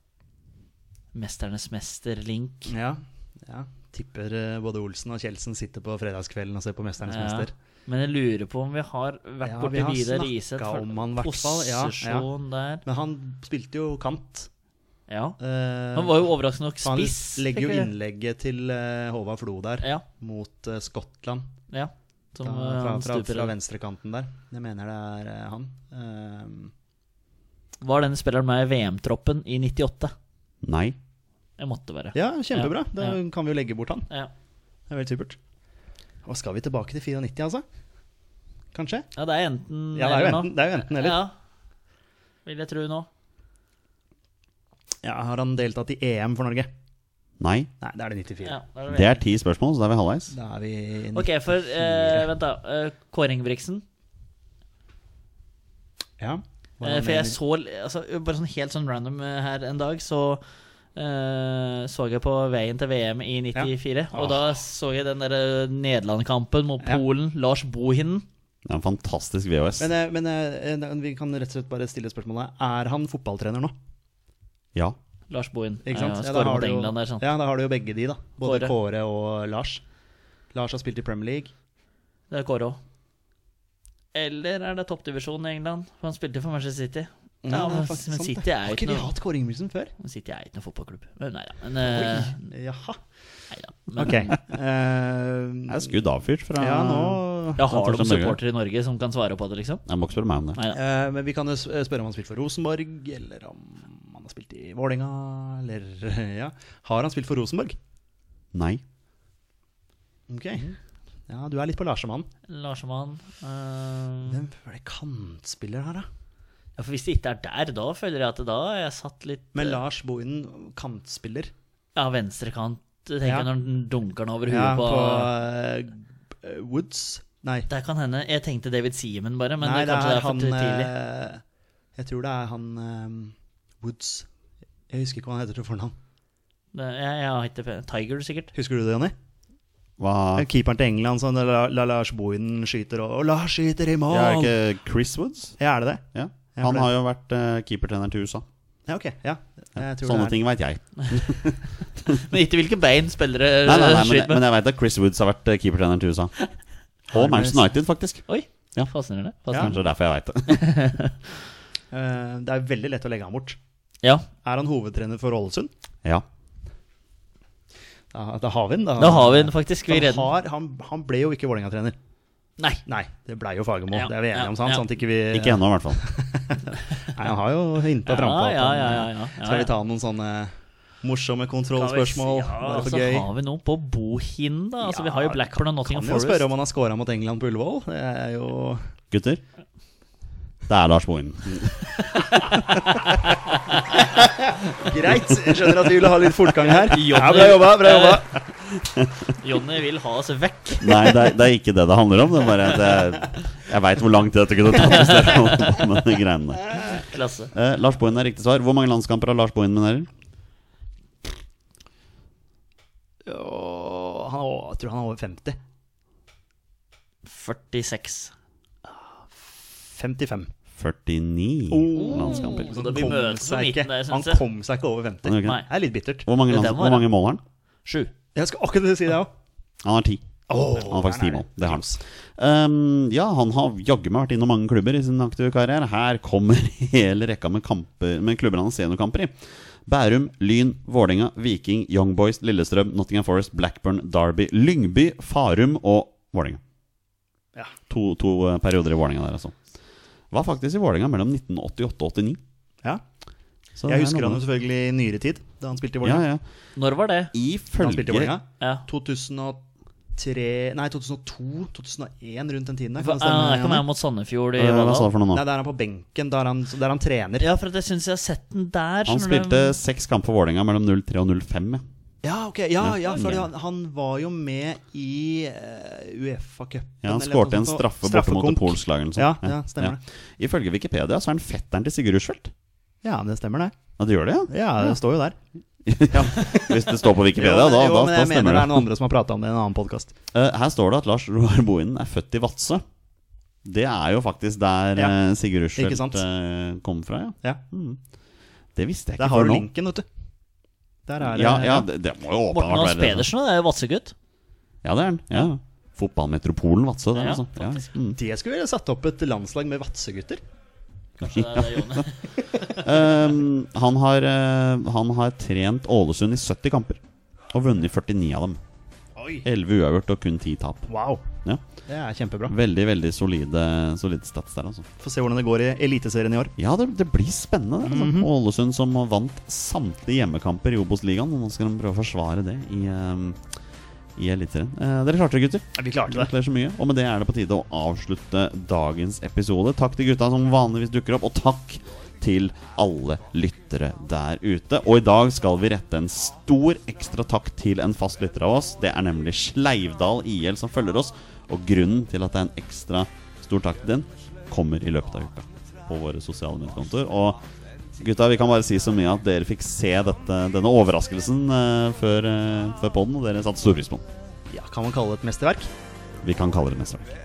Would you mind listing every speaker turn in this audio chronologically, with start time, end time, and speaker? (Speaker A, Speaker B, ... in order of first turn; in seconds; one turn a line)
Speaker A: 1.1-2.7
Speaker B: 2.7-7.5
Speaker A: 7.0-12.8
Speaker B: 9.4-12.3
Speaker B: 12.8-14.5
Speaker A: 15.1-15.4
Speaker B: 15.4-16.2
Speaker A: 15.9-17.9
Speaker B: 16.8-21.4
Speaker A: 21.7-23.5
Speaker B: 22.4-26.7
Speaker A: 27.8-30.1
Speaker C: 30.6-30.9
Speaker A: 31.6-33.2
Speaker B: 32.1-34.1
Speaker B: 34.9-35.4
Speaker B: 36.2-37.6
Speaker B: 38.7-39.1
Speaker A: 39.1-41.3
Speaker B: 39.9-41.2
Speaker A: 42.5-43.1
Speaker B: 45.0-46.7
Speaker C: 47.4-47.7
Speaker B: 47.8-48.5
Speaker A: 48.4-49.2
Speaker C: 48.9-50.3
Speaker B: 50.3-52.3
Speaker A: 51.1-53.8
Speaker B: 56.2-57.4
Speaker A: 56.8-60.4
Speaker A: 60.9-68.2
Speaker B: 63.5-64.5
Speaker C: 68.6-69.9
Speaker B: 69.8-73.7
Speaker A: 75.3-77.2
Speaker B: 75.8-79.8
Speaker A: 78.4-78.7
Speaker B: 80.5-81.5
Speaker A: 82.3-82.8
Speaker A: 84.1-89.1
Speaker B: 87.4-89.9
Speaker A: 90.0-92.4
Speaker B: 91.8-93.0
Speaker A: 93.5-94.4
Speaker B: 94.0-95.9
Speaker C: 95.7-98.4
Speaker B: 96.6-97.6
Speaker A: 97.6-99.8
Speaker C: 99.8-100.6
Speaker B: 100.7-107.8
Speaker C: 108.5-108.8
Speaker B: 110.3-110.7
Speaker B: 111.3-112.3
Speaker A: 112.5-114.4
Speaker B: 114.3-116.0
Speaker A: 116.8-119.8
Speaker B: 119.5-121.5
Speaker A: 121.9-125.3
Speaker B: 123.2-123.5
Speaker B: 124.5-127.7
Speaker A: 127.7-130.9
Speaker B: 129.6-131.4
Speaker B: 131.9-134.3
Speaker B: 134.9-135.9
Speaker A: 136.7-138.5
Speaker B: 138.5-139.1
Speaker C: 140.0-140.5
Speaker B: 140.3-144.5
Speaker C: 144.1-145.6
Speaker B: 145.6-146.9
Speaker C: 146.1-148.4
Speaker B: 148.9-150.4
Speaker C: 149.8-152.2
Speaker A: 152.1-154.4
Speaker C: 153.6-156.3
Speaker B: 157.1-157.6
Speaker C: 157.1-158.2
Speaker A: 158.3-159.8
Speaker C: 159.5-160.6
Speaker A: 160.5-161.2
Speaker B: 161.9-163.6
Speaker B: 164.4-165.7
Speaker B: 168.1-171.9
Speaker A: 169.0-170.3
Speaker B: 172.8-183.3
Speaker A: 173.9-174.8
Speaker C: 175.3-176.0
Speaker A: 178.1-179.7
Speaker A: 181.7-186.5
Speaker B: 184.8-188.9
Speaker C: 189.1-189.4
Speaker C: 190.7-192.3
Speaker A: 192.4-194.0
Speaker B: 193.9-198.4
Speaker A: 196.7-198.2
Speaker C: 198.8-199.3
Speaker A: 199.4-201.2
Speaker C: 200.8-206.8
Speaker A: 206.9-207.5
Speaker C: 207.5-210.1
Speaker B: 213.2-215.6
Speaker A: 217.2-218.3
Speaker B: 219.3-220.5
Speaker C: 220.8-222.7
Speaker B: 221.7-226.3
Speaker A: 222.0-224.4
Speaker C: 225.2-225.6
Speaker C: 226.2-227.4
Speaker A: 226.5-227.1
Speaker A: 227.8-228.1
Speaker B: 228.3-229.3
Speaker C: 229.8-246.6
Speaker B: 230.5-232.0
Speaker C: 247.9-249.5
Speaker C: 250.3-252.4
Speaker C: 253.8-254.4
Speaker B: 253.8-256.2
Speaker C: 256.0-256.4
Speaker A: 256.8-257.3
Speaker C: 257.3-258.3
Speaker B: 257.8-259.6
Speaker B: 260.2-263.8
Speaker A: 263.0-265.1
Speaker C: 264.6-265.4
Speaker B: 265.3-267.4
Speaker A: 267.4-269.8
Speaker C: 269.1-271.8
Speaker B: 272.2-280.0
Speaker C: 272.8-273.5
Speaker C: 277.0-282.5
Speaker B: 283.0-283.8
Speaker C: 284.0-284.9
Speaker B: 284.5-285.4
Speaker C: 285.9-288.8
Speaker B: 286.1-290.1
Speaker C: 290.3-292.8
Speaker C: 293.6-298.0
Speaker B: 295.8-296.2
Speaker C: 298.7-299.6
Speaker B: 299.2-300.0
Speaker B: 301.1-301.9
Speaker C: 301.2-303.3
Speaker A: 302.5-304.1
Speaker C: 304.8-308.2
Speaker A: 307.1-307.9
Speaker B: 308.1-310.4
Speaker A: 311.2-312.9
Speaker C: 311.2-312.0
Speaker C: 312.7-317.0
Speaker C: 317.5-318.6
Speaker B: 319.2-319.4
Speaker C: 319.4-320.9
Speaker B: 320.9-321.2
Speaker B: 321.9-322.5
Speaker C: 322.5-324.9
Speaker B: 325.0-326.5
Speaker C: 326.6-333.4
Speaker B: 327.8-328.3
Speaker C: 334.2-357.4
Speaker B: 335.8-336.3
Speaker C: 358.0-364.0
Speaker B: 364.5-365.7
Speaker C: 366.2-367.1